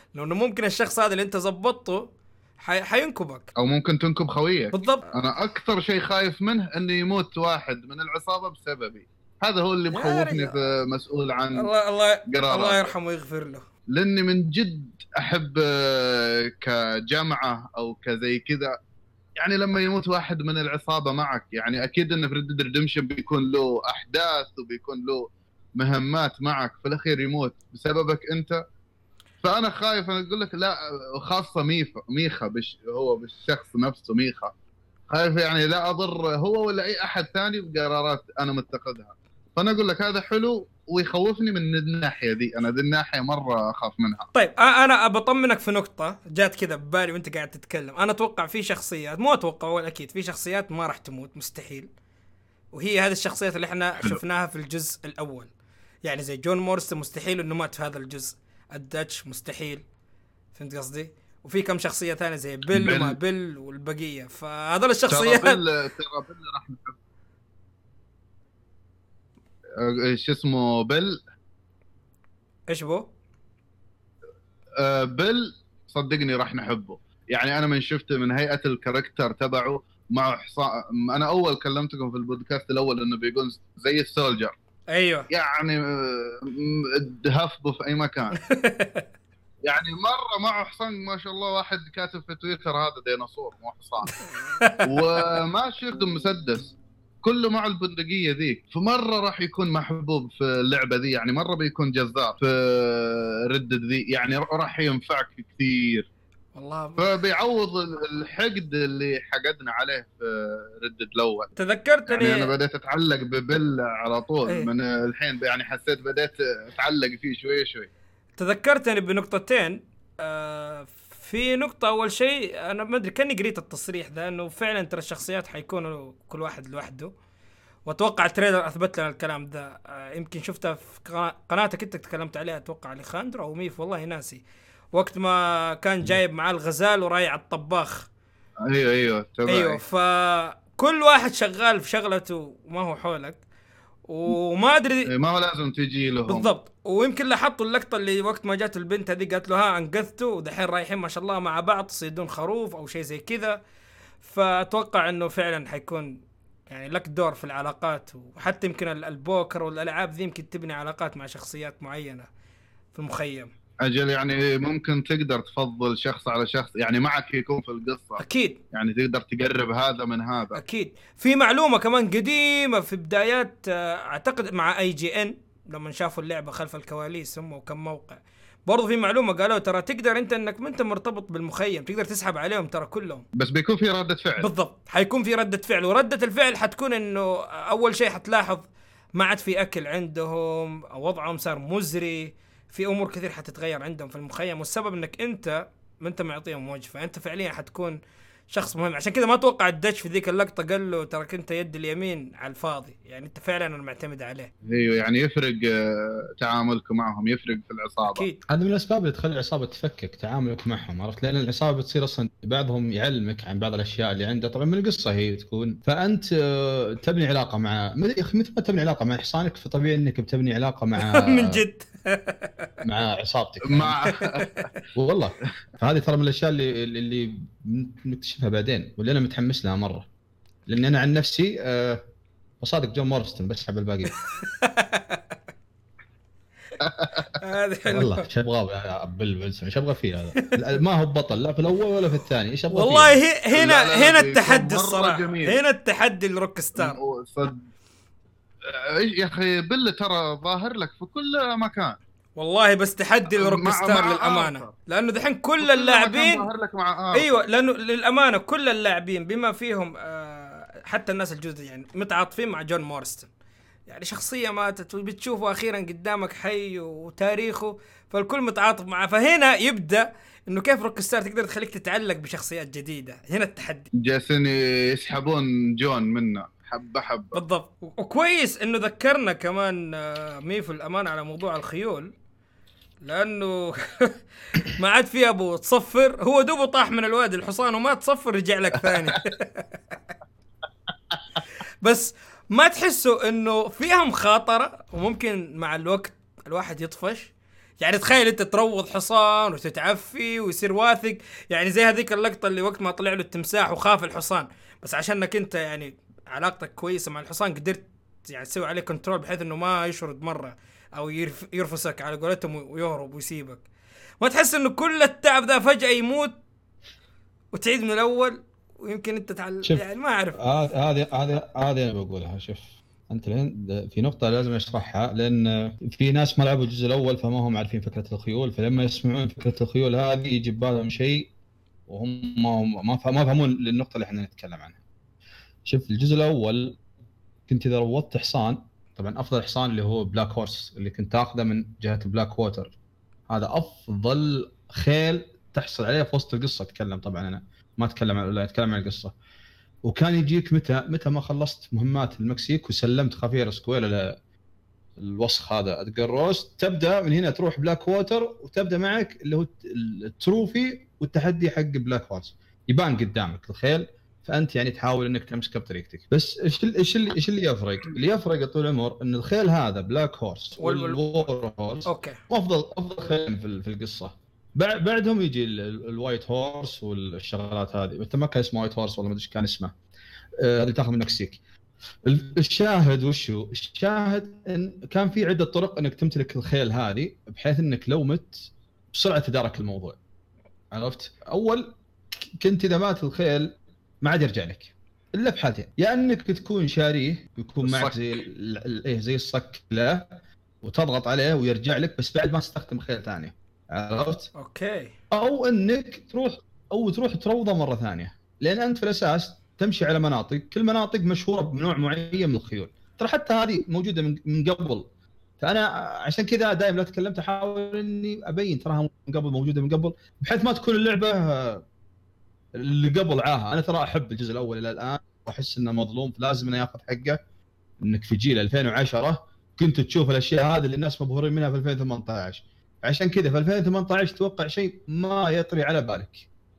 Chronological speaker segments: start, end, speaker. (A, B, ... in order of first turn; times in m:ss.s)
0:00.1-0:03.5 A
0:03.6-0:11.7 B
0:04.7-0:05.2 A
0:09.9-0:10.6 A
0:11.6-0:13.6 A
0:12.3-0:12.9 B
0:13.9-0:18.7 B
0:19.4-0:28.6 B
0:29.4-0:34.5 B
0:35.1-0:44.3 B
0:44.3-0:51.9 A
0:52.7-0:55.5 A
0:56.0-0:59.8 A
1:00.6-1:05.6 A
1:02.7-1:03.2 B
1:05.1-1:07.0 B
1:09.8-1:11.2 B
1:12.7-1:13.1 A
1:14.8-1:24.5 B
1:24.9-1:25.3 A
1:25.3-1:28.4 B
1:28.4-1:29.0 A
1:29.6-1:34.1 B
1:34.1-1:35.2 A
1:34.9-1:46.1 B
1:46.6-1:47.2 A
1:47.0-1:51.5 B
1:51.6-1:52.5 A
1:52.1-1:57.9 B
1:58.4-2:07.1 A
2:07.9-2:18.1 A
2:18.7-2:19.8 B
2:19.5-2:23.4 A
2:24.1-2:25.1 A
2:25.1-2:26.5 B
2:26.3-2:33.6 A
2:34.2-2:42.3 A
2:42.9-2:43.5 A
2:43.8-2:50.6 B
2:48.2-2:48.6 A
2:50.6-3:03.2 A
3:03.4-3:04.5 B
3:04.4-3:18.0 A
3:18.5-3:24.5 A
3:24.6-3:28.2 B
3:28.0-3:28.4 A
3:28.5-3:41.6 C
3:41.0-3:42.7 A
3:42.8-3:44.0 C
3:43.7-3:44.7 B
3:44.2-3:44.7 A
3:45.0-3:50.1 C
3:50.7-3:52.0 C
3:52.6-3:54.2 C
3:54.4-3:55.2 A
3:56.8-3:57.2 B
3:57.4-3:58.2 A
3:57.9-4:03.2 C
4:02.7-4:07.0 A
4:03.5-4:05.6 B
4:06.8-4:07.6 B
4:08.7-4:12.0 B
4:12.4-4:16.5 A
4:13.3-4:14.7 B
4:15.6-4:17.4 B
4:17.1-4:23.3 A
4:23.9-4:33.9 A
4:34.0-4:37.4 B
4:37.3-4:42.1 A
4:43.0-4:49.7 A
4:51.8-5:13.6 A
5:14.2-5:16.4 A
5:17.5-5:20.4 A
5:20.4-5:31.3 C
5:31.9-5:34.8 C
5:35.7-5:36.8 C
5:37.5-5:42.7 C
5:43.3-5:49.2 C
5:49.8-5:54.2 C
5:55.0-6:19.8 C
6:10.6-6:11.0 A
6:11.9-6:12.2 A
6:20.4-6:21.4 C
6:22.0-6:30.0 C
6:30.7-6:40.1 C
6:37.6-6:38.2 B
6:40.6-6:44.3 C
6:44.4-6:44.9 A
6:45.1-6:54.9 C
6:55.4-7:01.6 C
7:02.6-7:07.2 C
7:07.8-7:16.3 C